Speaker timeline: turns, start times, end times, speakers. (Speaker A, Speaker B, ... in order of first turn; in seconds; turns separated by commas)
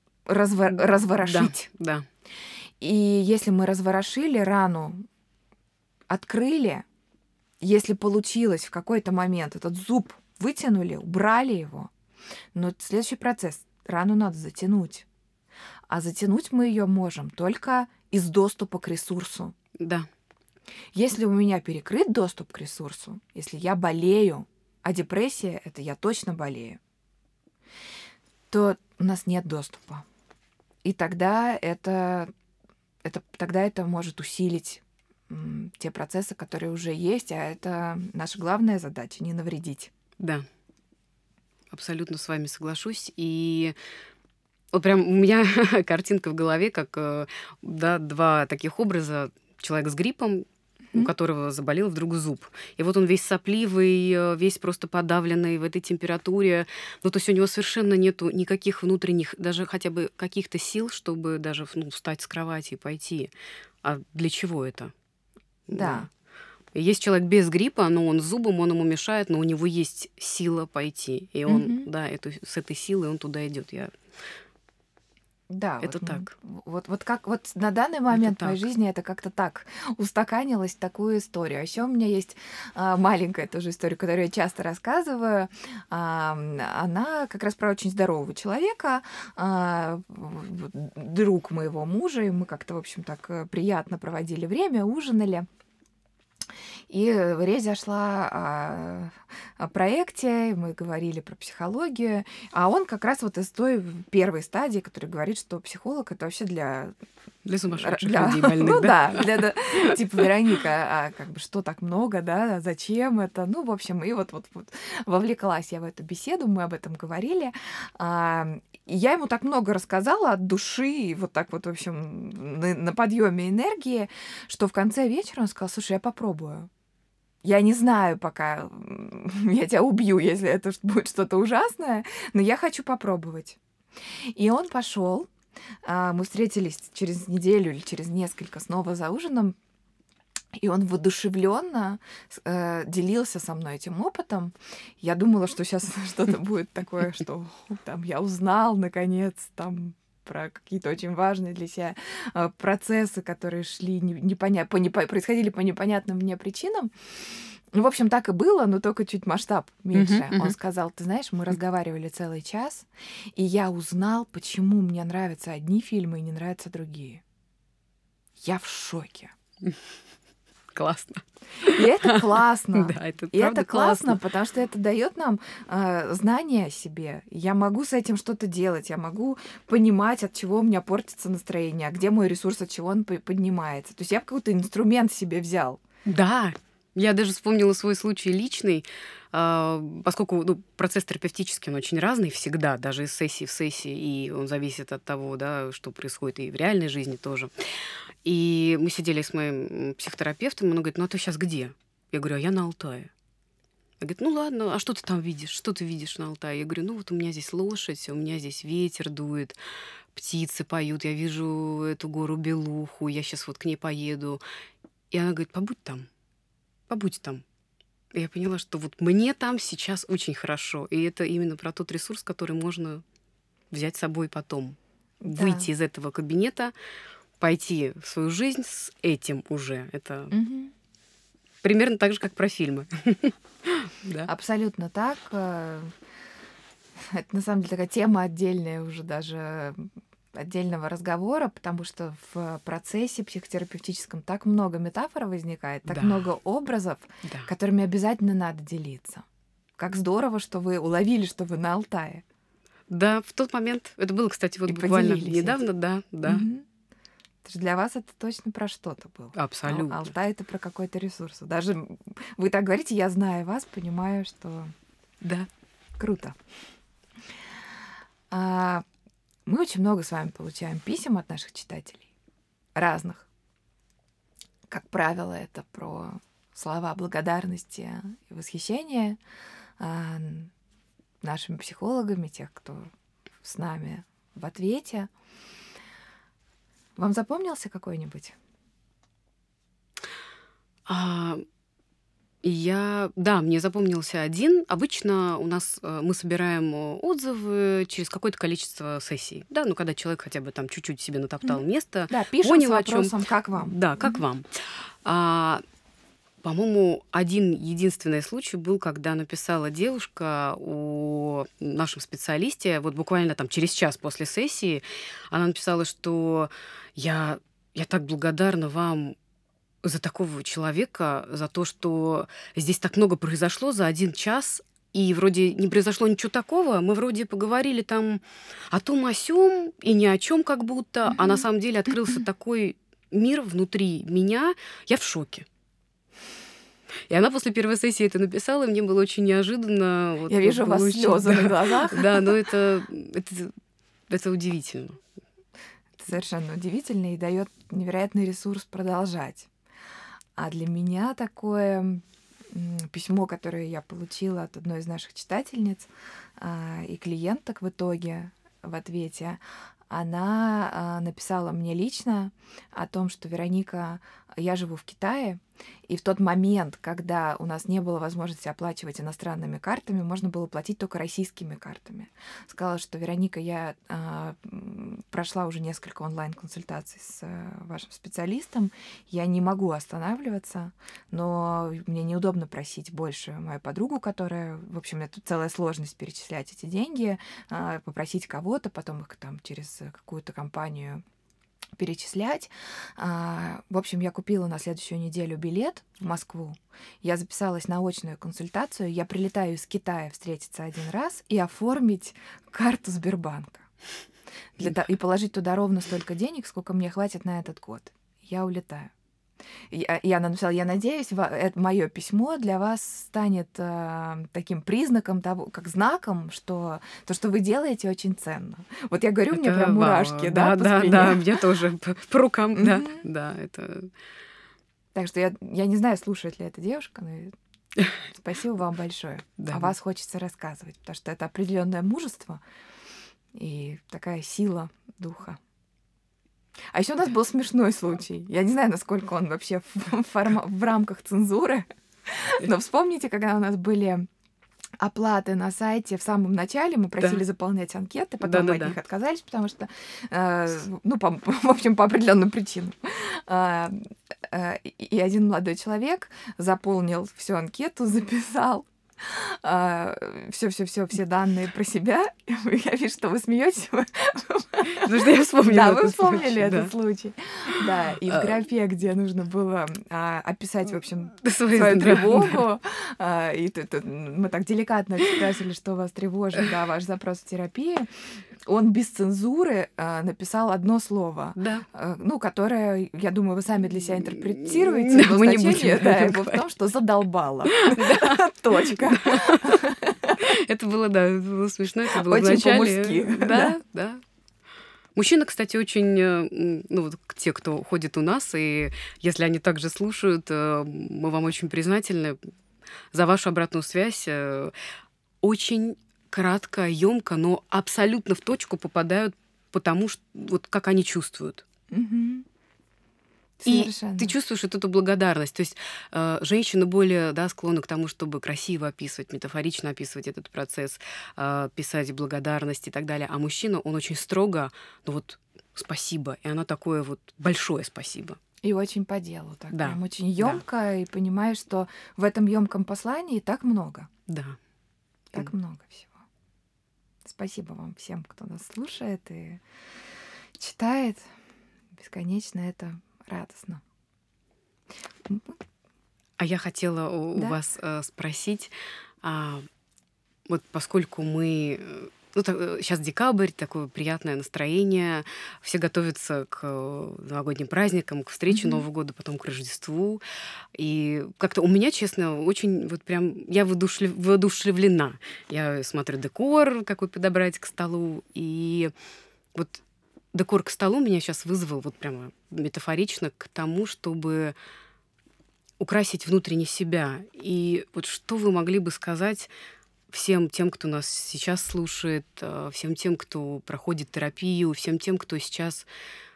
Speaker A: 0.3-1.7, Speaker B: 0.8-2.1, Speaker A: 2.8-5.1, Speaker A: 6.1-6.8, Speaker A: 7.6-11.9, Speaker A: 12.5-15.1, Speaker A: 15.9-19.6, Speaker B: 19.8-20.1, Speaker A: 20.9-26.8, Speaker A: 28.5-30.1, Speaker A: 30.8-32.3, Speaker A: 33.0-39.9, Speaker B: 40.2-40.5, Speaker B: 41.7-43.8, Speaker B: 44.7-63.3, Speaker B: 63.8-64.9, Speaker B: 65.7-66.1, Speaker A: 65.7-66.1, Speaker B: 66.7-73.9, Speaker A: 71.5-71.9, Speaker A: 75.5-95.5, Speaker B: 75.8-76.3, Speaker B: 78.1-78.7, Speaker A: 96.9-106.9, Speaker B: 107.5-109.9, Speaker A: 107.7-126.7, Speaker A: 127.4-133.6, Speaker A: 134.3-135.3, Speaker A: 135.8-139.6, Speaker A: 140.6-167.2, Speaker B: 159.9-160.6, Speaker A: 168.4-169.3, Speaker B: 170.7-174.2, Speaker A: 171.6-185.8, Speaker B: 186.1-197.5, Speaker B: 198.2-203.1, Speaker B: 204.0-209.6, Speaker B: 210.1-214.4, Speaker B: 215.1-216.1, Speaker B: 216.9-217.4, Speaker B: 218.1-223.0, Speaker B: 223.7-226.7, Speaker A: 225.2-225.7, Speaker B: 227.4-230.3, Speaker A: 230.3-230.7, Speaker B: 231.6-234.3, Speaker A: 234.3-235.9, Speaker A: 237.0-249.3, Speaker B: 245.9-246.3, Speaker B: 247.2-247.5, Speaker A: 249.8-252.2, Speaker B: 252.9-256.5, Speaker A: 254.7-255.6, Speaker A: 256.2-256.7, Speaker A: 257.4-264.7, Speaker B: 259.4-260.1, Speaker B: 265.2-265.5, Speaker A: 266.0-266.4, Speaker A: 268.3-268.9, Speaker A: 269.5-272.1, Speaker A: 272.8-273.3, Speaker A: 274.7-279.2, Speaker A: 279.8-280.5, Speaker A: 281.2-282.9, Speaker A: 283.4-285.1, Speaker A: 287.0-288.4, Speaker B: 290.9-291.4, Speaker B: 292.4-305.6, Speaker A: 301.4-304.2, Speaker B: 306.4-319.2, Speaker B: 319.8-335.5, Speaker B: 337.1-343.5, Speaker A: 340.3-342.4, Speaker B: 344.1-345.0, Speaker A: 346.0-349.5, Speaker A: 350.4-391.0, Speaker A: 391.8-403.7, Speaker A: 404.6-408.9, Speaker A: 409.7-421.3, Speaker B: 419.3-423.9, Speaker A: 422.6-423.1, Speaker A: 424.9-427.4, Speaker A: 428.1-432.4, Speaker B: 429.4-429.7, Speaker A: 433.3-435.4, Speaker A: 436.7-444.1, Speaker A: 444.8-477.9, Speaker B: 448.2-448.8, Speaker B: 464.6-466.7, Speaker B: 468.1-468.4, Speaker B: 471.2-472.4, Speaker A: 478.5-490.2, Speaker B: 481.4-481.7, Speaker B: 484.2-486.4, Speaker B: 487.5-494.0, Speaker A: 491.9-493.6, Speaker B: 494.9-502.2, Speaker B: 502.9-504.5, Speaker B: 505.2-511.4, Speaker A: 511.7-512.3, Speaker A: 513.4-514.1, Speaker B: 513.5-528.2, Speaker A: 528.4-533.9, Speaker B: 529.5-530.4, Speaker B: 534.1-534.4, Speaker A: 535.1-536.0, Speaker A: 537.0-539.4, Speaker A: 540.4-541.1, Speaker A: 541.7-543.6, Speaker A: 545.1-545.4, Speaker B: 546.2-549.5, Speaker A: 547.1-547.4, Speaker B: 550.3-560.0, Speaker A: 558.3-558.6, Speaker B: 560.5-568.7, Speaker B: 569.3-569.6, Speaker B: 570.1-574.4, Speaker B: 575.6-579.3, Speaker B: 579.9-585.7